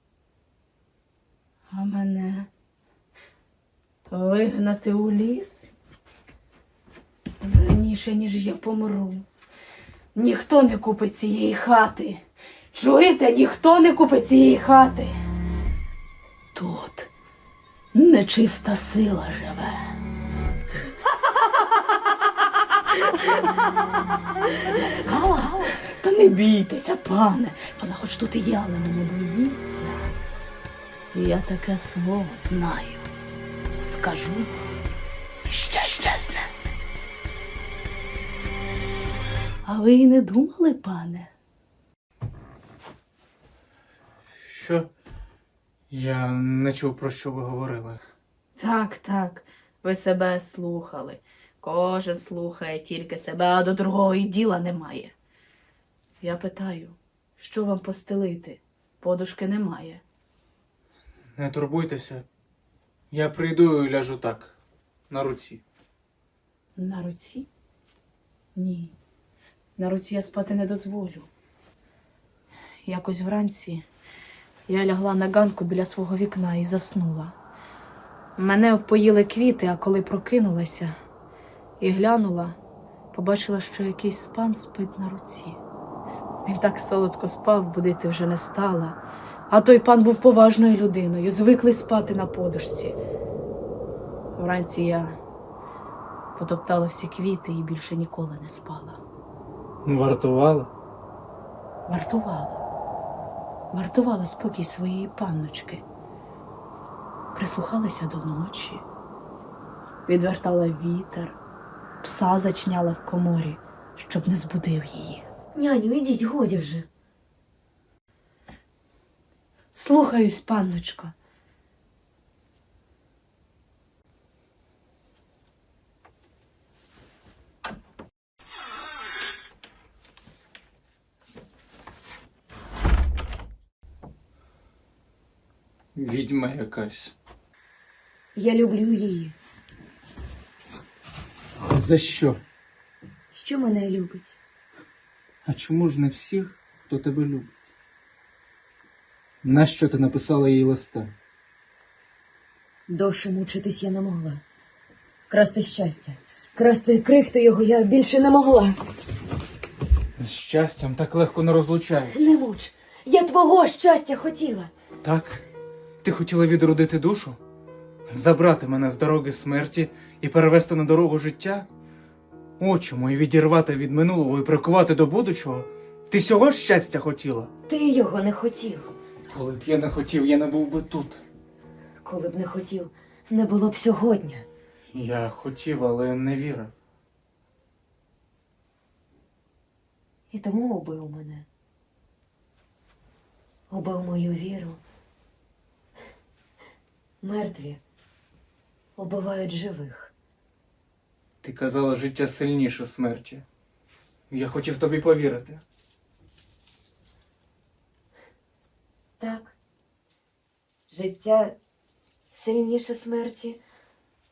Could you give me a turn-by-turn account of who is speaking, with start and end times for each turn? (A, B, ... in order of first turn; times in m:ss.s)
0:01.7-0:02.5 A
0:04.1-0:05.7 A
0:07.4-0:09.3 A
0:10.2-0:15.2 A
0:16.5-0:17.1 A
0:17.9-0:19.9 A
0:24.6-0:30.0 A
0:31.1-0:33.1 A
0:33.8-0:34.5 A
0:35.4-0:36.6 A
0:39.6-0:41.3 A
0:44.4-0:44.9 B
0:45.9-0:48.0 B
0:48.5-0:55.2 A
0:56.2-1:00.0 A
1:01.4-1:02.3 B
1:03.1-1:04.6 B
1:05.1-1:05.6 B
1:06.8-1:07.5 A
1:08.5-1:08.9 A
1:09.8-1:11.3 A
1:12.8-1:13.8 A
1:14.7-1:17.4 A
1:18.4-1:21.0 A
1:21.8-1:22.6 A
1:23.1-1:25.6 A
1:26.5-1:29.0 A
1:29.5-1:33.0 A
1:34.4-1:35.2 A
1:36.4-1:39.0 A
1:39.8-1:40.7 B
1:41.9-1:42.6 A
1:43.7-1:45.8 A
1:47.3-1:48.8 A
1:50.1-1:51.4 A
1:52.0-1:55.2 A
1:55.6-1:56.9 C
1:59.7-2:01.2 A
2:16.0-2:17.1 B
2:18.4-2:19.4 C
2:21.7-2:22.4 B
2:23.3-2:24.4 C
2:25.4-2:27.5 B
2:29.4-2:31.1 B
2:32.9-2:34.4 C
2:35.3-2:38.8 C
2:40.2-2:42.3 B
2:42.1-2:44.7 C
2:45.0-2:45.5 B
2:46.0-2:47.4 B
2:48.1-2:51.7 B
2:52.6-2:57.5 B
2:57.7-2:58.9 C
2:59.3-3:01.2 B
3:02.0-3:04.5 C
3:04.9-3:06.8 B
3:10.3-3:11.5 C
3:13.7-3:14.8 C
3:17.2-3:17.8 C
3:19.0-3:20.1 C
3:21.4-3:23.5 B
3:24.3-3:25.6 B
3:29.2-3:29.5 C
3:30.9-3:31.6 C
3:32.3-3:33.6 C